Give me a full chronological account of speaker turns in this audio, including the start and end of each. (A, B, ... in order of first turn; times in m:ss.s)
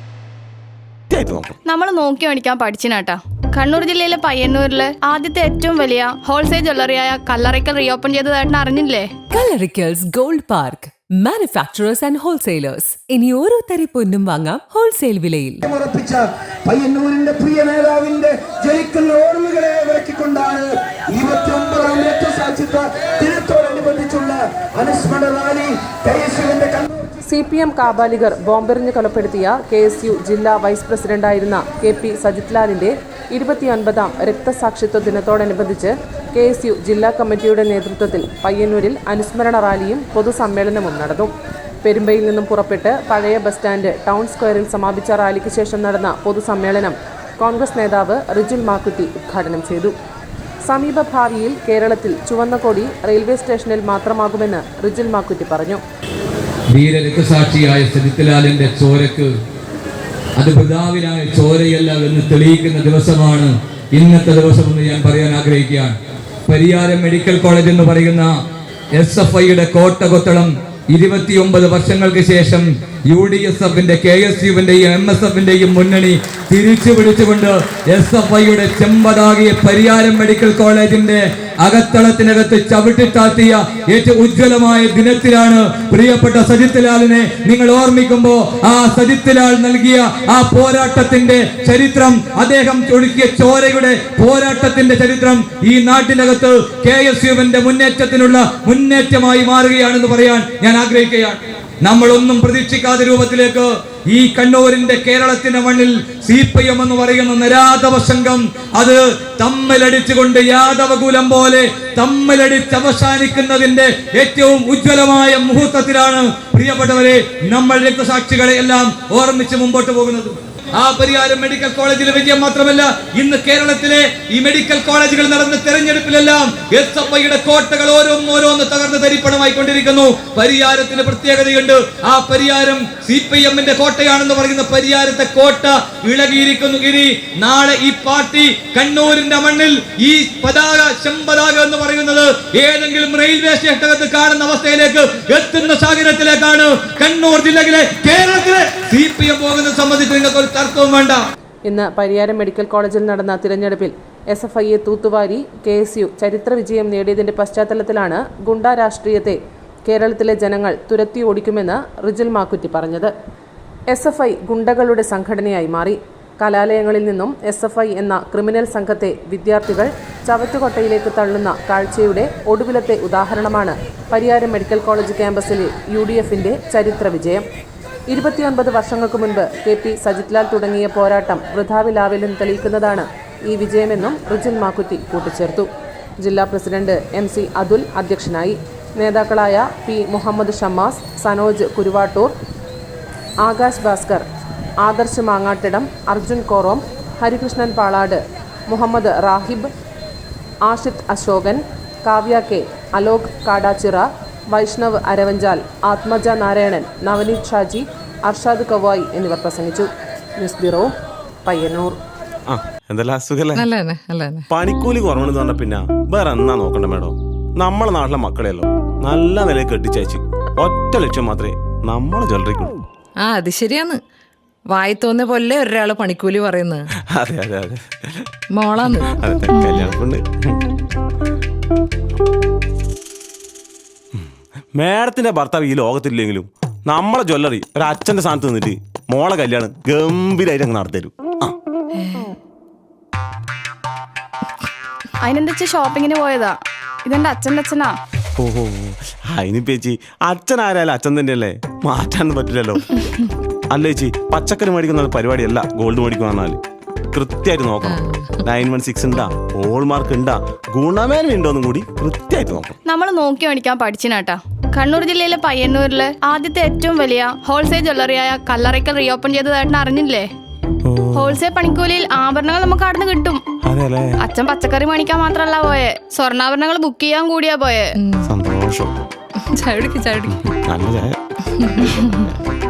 0:01.1-0:01.6 A
0:01.7-0:09.1 B
0:09.3-0:15.6 C
0:15.6-0:26.9 D
0:27.3-0:41.3 E
0:41.8-0:49.9 E
0:50.6-0:55.8 E
0:56.7-0:59.3 F
1:00.4-1:06.0 F
1:06.5-1:08.3 F
1:08.9-2:31.2 F
2:31.6-2:43.1 E
2:43.9-2:57.4 E
2:58.1-3:05.7 E
3:06.2-3:12.3 E
3:13.4-3:14.2 E
3:14.8-3:19.7 E
3:20.6-3:29.9 E
3:30.4-3:30.9 E
3:31.4-3:32.0 E
3:32.5-3:33.7 A
3:33.5-3:34.5 G
3:34.5-3:42.8 A
3:43.2-3:44.0 G
3:44.7-3:46.9 G
3:47.0-3:48.2 A
3:48.5-3:49.2 G
3:49.0-3:50.6 A
3:54.8-4:01.5 A
4:02.0-4:02.4 G
4:05.2-4:07.9 B
4:08.4-4:12.9 A
4:13.7-4:16.6 A
4:17.1-4:22.8 A
4:18.0-4:18.4 G
4:22.8-4:30.3 B
4:30.8-4:31.4 A
4:31.1-4:33.4 B
4:33.6-4:34.2 A
4:34.2-4:38.0 B
4:38.0-4:38.3 G
4:38.2-4:38.9 A
4:39.4-4:40.3 G
4:40.3-4:41.2 A
4:41.6-4:42.2 G